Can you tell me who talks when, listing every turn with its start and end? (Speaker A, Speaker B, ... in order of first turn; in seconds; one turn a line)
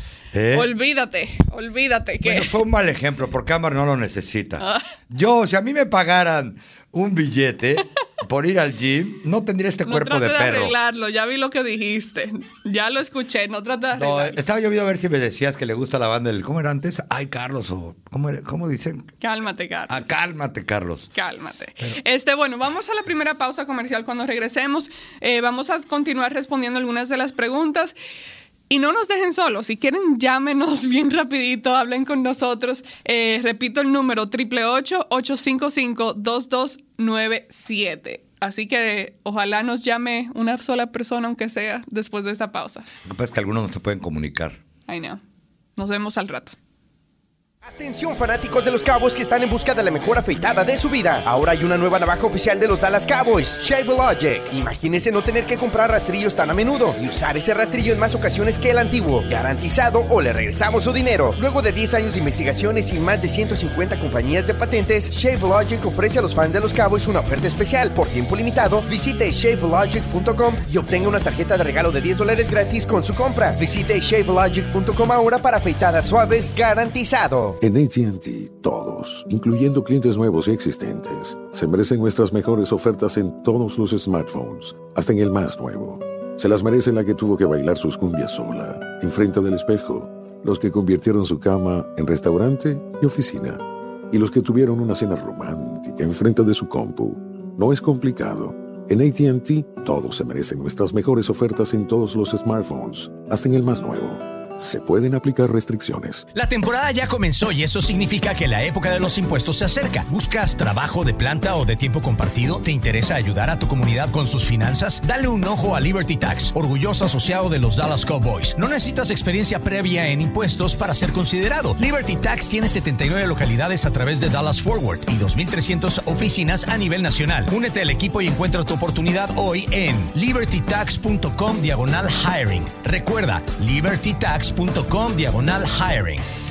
Speaker A: 0.3-0.7
Speaker B: 0.5-2.5
Speaker A: 2.2-10.8
Speaker B: 4.6-4.8
Speaker B: 9.9-14.4
Speaker A: 13.9-19.1
Speaker B: 19.2-20.0
Speaker A: 19.9-21.1
Speaker B: 21.1-27.9
Speaker B: 28.7-42.9
Speaker A: 43.0-44.6
Speaker B: 44.9-45.2
Speaker B: 45.8-46.6
Speaker C: 47.6-77.6
Speaker D: 77.6-106.2
Speaker E: 106.3-136.2